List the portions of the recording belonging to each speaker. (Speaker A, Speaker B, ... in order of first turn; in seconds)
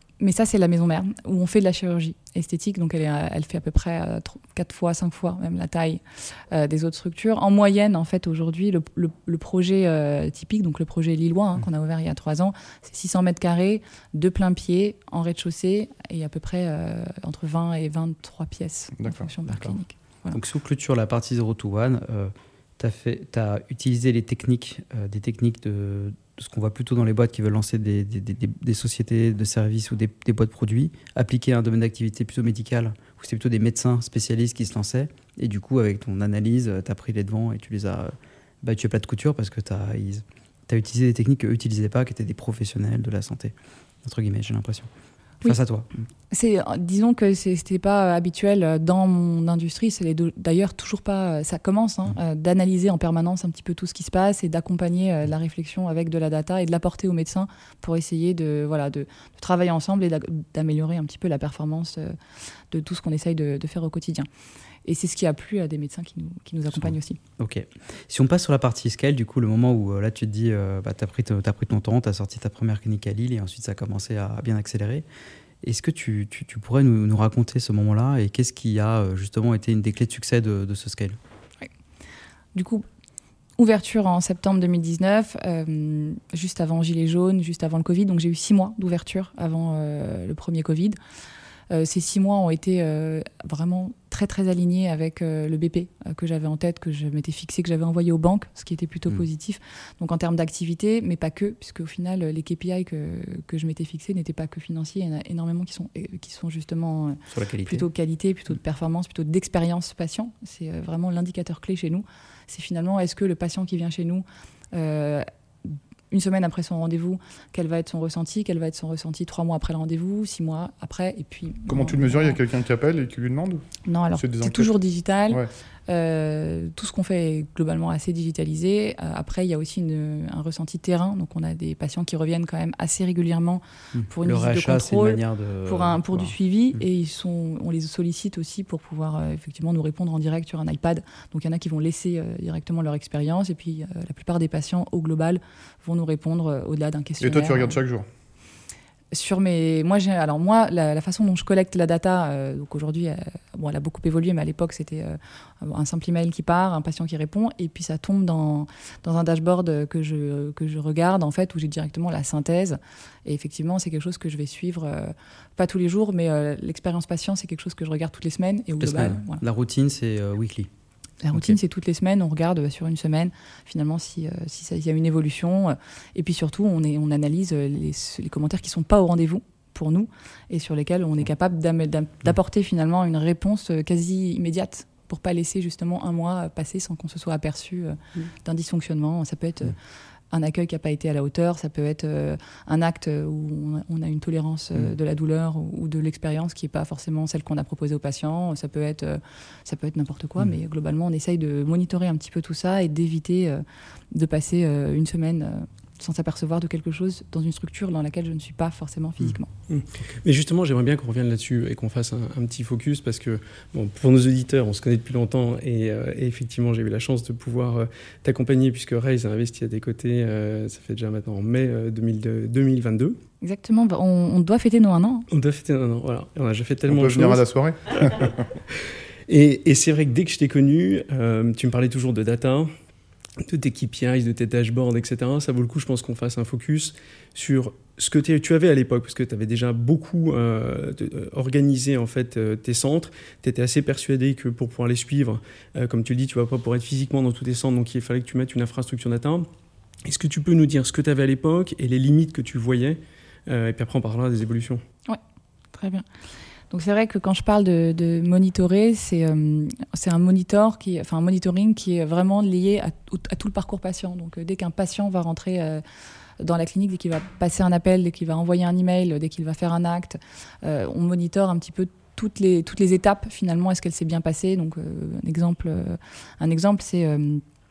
Speaker A: 0.2-20.4, 46.3-62.1, 62.7-64.3, 64.8-67.2, 82.5-82.8, 83.6-91.0, 91.7-122.4, 123.8-147.8, 149.1-169.4, 171.2-189.8, 190.3-209.5, 223.4-225.3, 255.7-256.1, 256.7-265.8, 266.4-277.4
Speaker B: 19.0-19.3, 121.7-123.6, 124.2-124.7, 147.2-148.1, 226.9-228.4
Speaker C: 20.3-44.9, 45.4-45.9, 66.7-75.0, 75.6-81.2, 107.3-107.8, 133.9-136.3, 168.8-170.7
Speaker D: 209.7-223.2, 225.3-228.3, 229.3-232.7, 233.4-249.4, 250.0-254.8